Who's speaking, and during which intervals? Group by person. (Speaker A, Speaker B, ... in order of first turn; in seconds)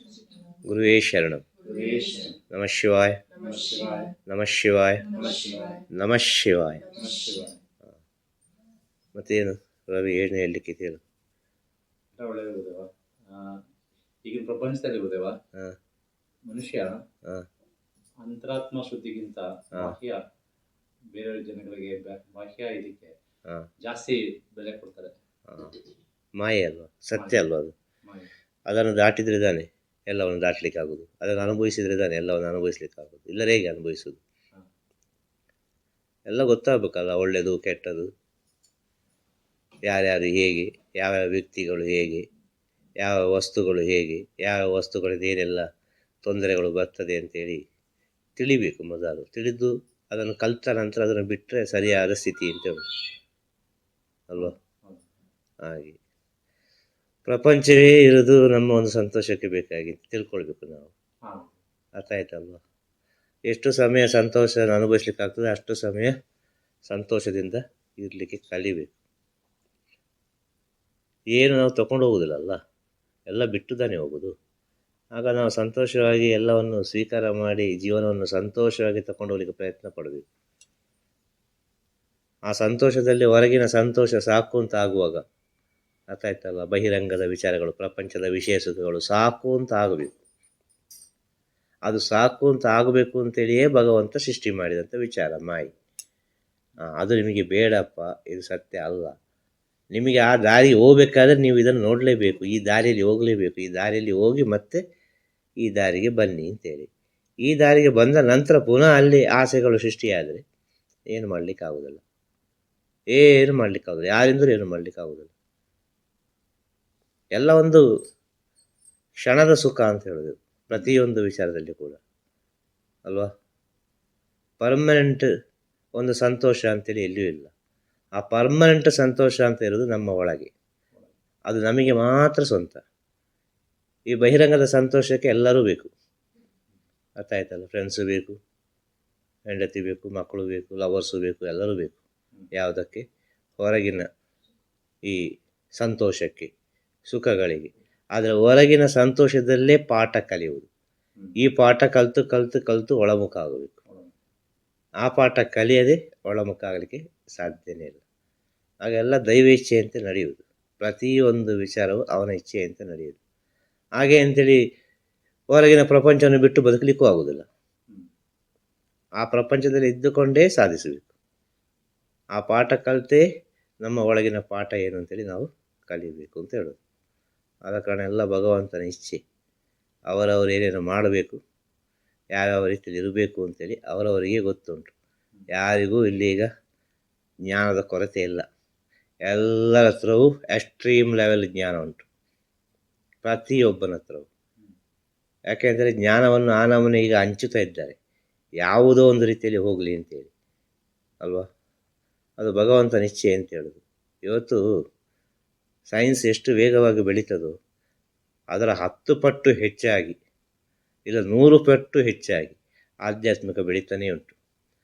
Speaker A: 0.6-1.4, 2.5-3.2, 4.3-5.1, 5.9-6.9, 9.2-11.0, 25.5-25.8, 26.4-27.7, 28.7-34.2, 36.3-38.1, 39.9-42.2, 43.0-45.6, 46.2-47.6, 48.4-52.8, 55.6-56.0, 57.3-60.9, 62.0-62.6, 63.5-66.1, 66.9-69.0, 71.3-72.6, 73.3-74.3, 75.2-80.2, 82.5-85.2, 86.1-90.2, 91.9-95.7, 96.9-99.2, 100.0-104.8, 105.6-106.9, 107.4-110.4, 111.1-112.0, 113.1-115.3, 117.3-117.8, 119.2-122.0, 124.6-125.3, 126.0-127.5, 128.2-130.5, 131.5-132.8, 134.1-135.9, 137.2-138.4, 139.5-142.0, 142.5-143.0, 143.6-144.1, 145.8-146.5, 147.1-150.7, 151.4-153.8, 155.0-158.0, 158.8-163.2, 164.0-164.6, 165.5-167.5, 169.2-171.1, 172.3-173.2, 173.8-176.8, 177.7-179.2, 180.1-181.4, 182.3-184.9, 185.5-186.5, 187.5-188.4, 189.2-192.1, 193.2-194.3, 195.5-197.9, 198.6-200.3, 202.4-204.6, 205.9-207.5, 208.5-210.2, 211.1-214.4
Speaker B: 1.6-2.4, 3.4-4.1, 5.1-5.8, 6.9-7.6, 12.2-13.6, 14.2-15.4, 16.5-17.0, 18.2-20.2, 21.1-23.1, 23.8-25.1, 27.1-27.4, 54.4-55.0, 61.2-61.5